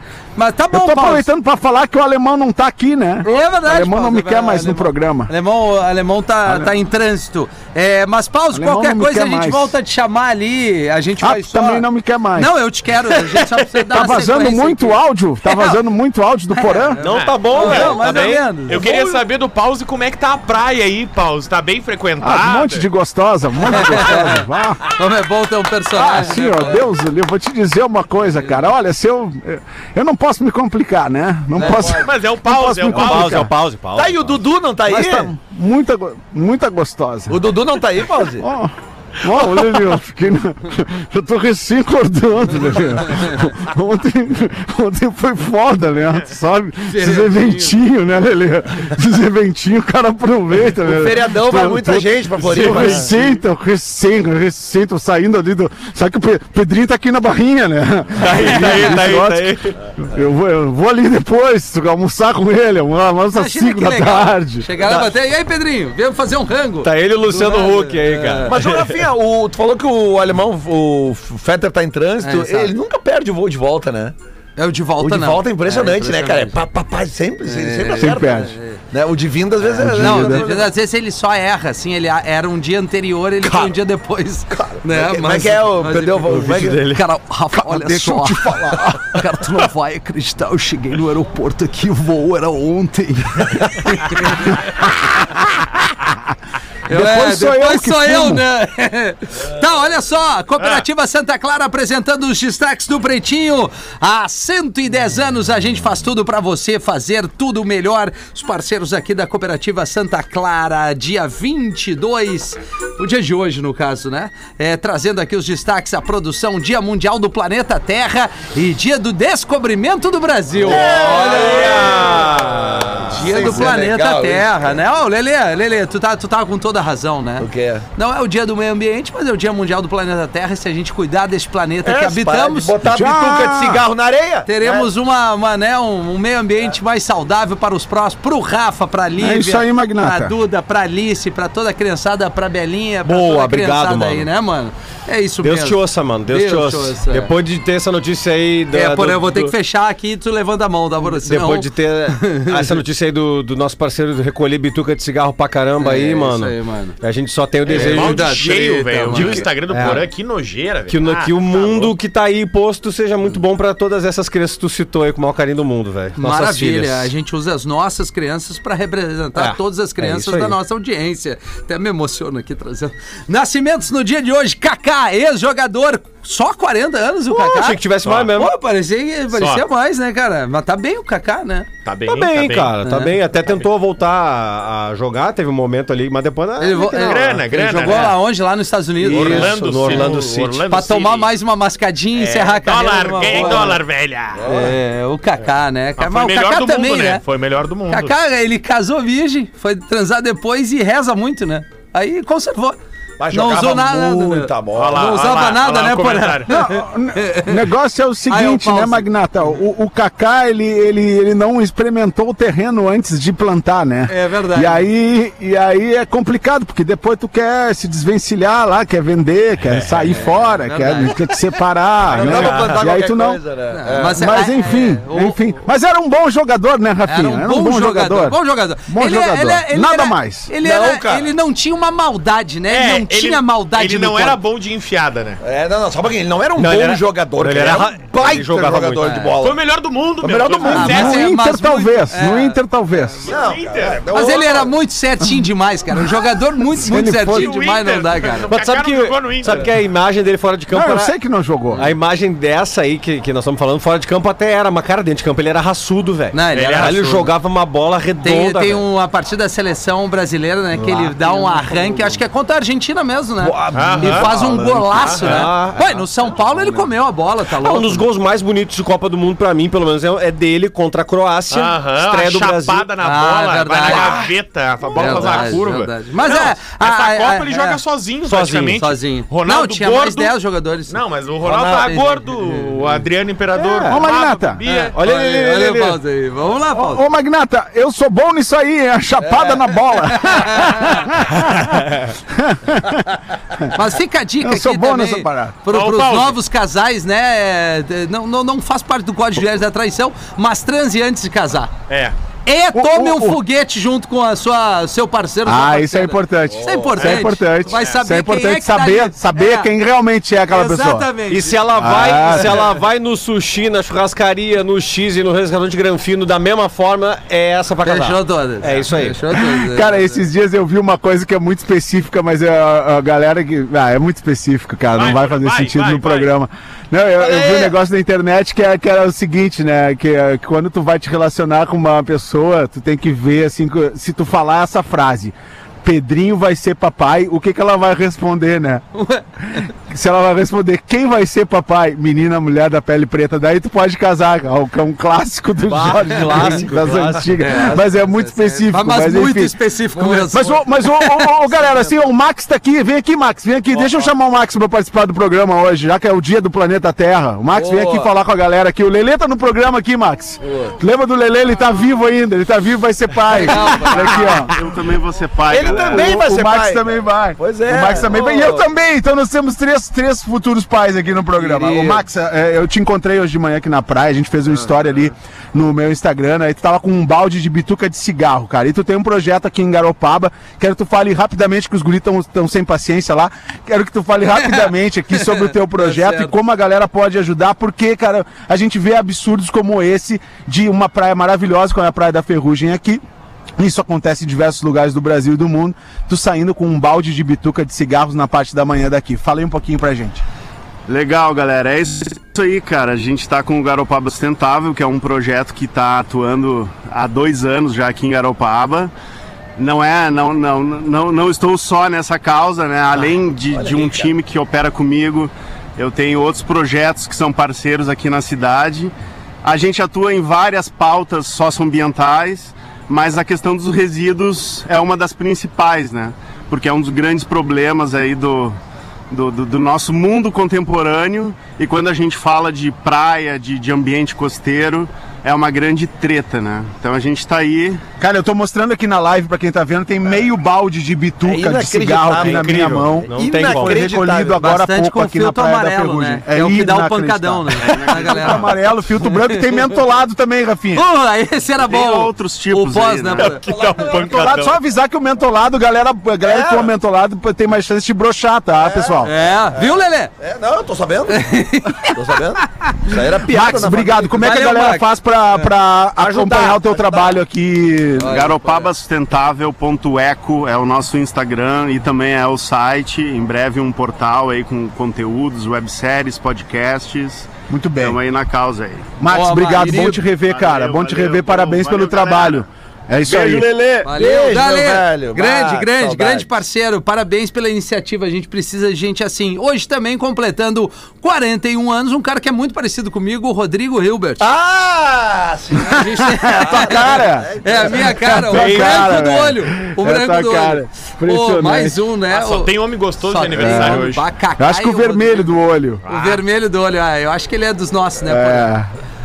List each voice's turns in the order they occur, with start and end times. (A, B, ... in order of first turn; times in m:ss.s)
0:00.4-0:01.3 A
0:00.7-0:05.3 B
0:03.2-0:15.8 A
0:06.4-0:06.7 B
0:08.5-0:09.7 B
0:11.2-0:12.5 B
0:13.9-0:17.0 B
0:16.5-0:18.8 A
0:17.0-0:18.7 C
0:17.0-0:22.9 D
0:17.5-0:18.0 E
0:22.2-0:24.8 B
0:23.7-0:26.8 A
0:25.9-0:33.5 B
0:31.6-0:32.1 E
0:31.8-0:33.5 D
0:32.9-0:34.4 C
0:33.9-0:35.3 E
0:34.9-0:37.4 B
0:37.3-0:38.4 E
0:38.2-1:04.7 B
0:46.8-0:47.8 A
0:50.8-0:53.2 E
0:58.2-0:59.7 C
0:58.5-0:58.9 A
1:03.3-1:08.6 A
1:04.8-1:05.1 C
1:06.8-1:08.9 C
1:08.5-1:14.1 E
1:12.2-1:12.7 A
1:14.6-1:16.6 A
1:15.0-1:20.7 E
1:17.4-1:18.8 A
1:18.0-1:18.5 B
1:19.8-1:20.4 B
1:19.9-1:34.6 A
1:24.5-1:26.9 E
1:26.3-1:27.0 C
1:27.6-1:29.1 B
1:36.9-2:02.1 A
1:36.9-1:38.4 B
2:00.6-2:04.8 E
2:01.1-2:03.0 C
2:03.1-2:12.7 A
2:07.4-2:07.8 E
2:11.8-2:14.9 E
2:12.8-2:13.8 B
2:14.4-2:27.3 A
2:19.2-2:20.3 B
2:23.0-2:24.3 C
2:25.4-2:29.5 C
2:28.7-2:32.8 A
2:31.0-2:40.1 C
2:35.8-2:37.0 A
2:37.6-2:39.5 A
2:37.6-2:42.0 D
2:40.9-2:47.1 C
2:46.2-2:57.8 A
2:49.3-2:50.6 C
2:57.3-2:58.5 C
2:58.0-2:58.3 D
2:58.4-3:01.7 A
2:59.3-2:59.6 D
3:01.8-3:02.7 D
3:02.0-3:08.2 C
3:02.8-3:03.1 A
3:06.6-3:13.8 A
3:07.0-3:08.2 D
3:09.0-3:10.7 C
3:09.0-3:11.3 D
3:12.2-3:14.4 D
3:13.3-3:13.7 E
3:14.4-3:14.7 E
3:14.4-3:17.2 A
3:16.0-3:18.1 D
3:17.9-3:22.8 A
3:23.2-3:25.1 E
3:23.3-3:27.6 A
3:24.7-3:26.5 D
3:26.5-3:43.4 B
3:28.3-3:29.1 A
3:34.1-3:34.8 A
3:40.1-3:41.4 A
3:42.1-3:44.2 E
3:42.1-3:42.8 D
3:43.7-3:45.6 A
3:44.1-3:50.5 B
3:47.0-3:54.4 A
3:50.6-3:51.3 E
3:52.7-3:55.4 D
3:55.4-3:59.6 E
3:56.6-3:59.2 C
3:59.1-3:59.3 A
3:59.4-4:01.3 D
4:00.2-4:01.0 E
4:00.6-4:03.3 B
4:00.7-4:02.6 A
4:03.2-4:04.0 D
4:03.2-4:04.7 E
4:04.1-4:08.5 A
4:06.7-4:07.5 B
4:07.2-4:09.7 D
4:08.5-4:11.1 C
4:10.7-4:11.8 B
4:11.8-4:18.8 C
4:16.3-4:17.2 A
4:16.5-4:17.2 D
4:18.2-4:28.0 A
4:20.7-4:22.2 C
4:23.4-4:26.9 C
4:23.7-4:24.3 D
4:25.0-4:25.4 D
4:27.5-4:32.9 C
4:31.5-4:40.3 D
4:33.0-4:34.2 A
4:34.9-4:37.8 A
4:35.0-4:35.6 C
4:38.2-4:38.8 C
4:38.8-4:42.8 A
4:40.9-4:45.0 D
4:43.7-4:44.0 C
4:43.8-4:44.6 B
4:44.7-4:47.0 A
4:44.9-4:46.0 C
4:46.7-4:53.7 B
4:49.2-4:49.6 E
4:50.1-4:51.0 A
4:53.7-5:01.7 A
4:54.4-4:55.6 B
4:55.7-4:56.4 D
5:01.9-5:02.1 D
5:02.4-5:09.7 A
5:02.7-5:03.4 B
5:05.4-5:11.1 B
5:07.0-5:08.0 D
5:10.5-5:11.6 A
5:11.3-5:19.2 C
5:11.7-5:12.6 B
5:12.2-5:12.6 A
5:17.8-5:20.2 A
5:19.3-5:38.8 B
5:24.9-5:26.3 D
5:38.9-5:39.7 A
5:39.5-6:04.6 B
5:45.6-5:47.7 C
5:47.4-5:51.3 A
5:57.6-5:58.0 A
6:03.3-6:04.4 A
6:04.0-6:06.2 F
6:05.5-6:06.8 E
6:05.6-6:33.0 B
6:07.4-6:08.6 E
6:11.4-6:11.9 A
6:24.4-6:26.3 A
6:33.6-6:40.2 B
6:40.9-6:48.9 F
6:49.6-6:58.9 F
6:53.0-6:54.1 E
6:59.4-7:08.6 F
7:09.1-7:17.8 F
7:18.0-7:30.8 B
7:21.2-7:24.4 E
7:22.2-7:23.8 C
7:24.4-7:29.8 A
7:27.7-7:28.5 F
7:30.7-7:33.4 A
7:31.6-7:33.7 F
7:33.2-7:34.6 D
7:33.5-7:34.4 E
7:34.1-7:39.1 B
7:36.2-7:36.7 E
7:38.6-7:41.3 E
7:39.0-7:40.1 A
7:41.1-7:43.0 A
7:41.9-7:44.6 E
7:43.2-7:48.3 B
7:44.2-7:44.9 A
7:46.0-7:47.2 E
7:48.0-7:59.0 F
7:57.5-7:58.0 B
7:59.0-8:03.5 B
7:59.1-7:59.9 A
7:59.6-8:00.0 E
8:00.1-8:02.4 F
8:03.0-8:06.3 E
8:03.8-8:14.2 A
8:14.2-8:18.2 E
8:15.6-8:25.3 A
8:15.6-8:21.8 B
8:22.1-8:24.0 D
8:23.3-8:25.8 B
8:25.8-8:26.2 D
8:25.8-8:28.5 A
8:28.0-8:28.7 B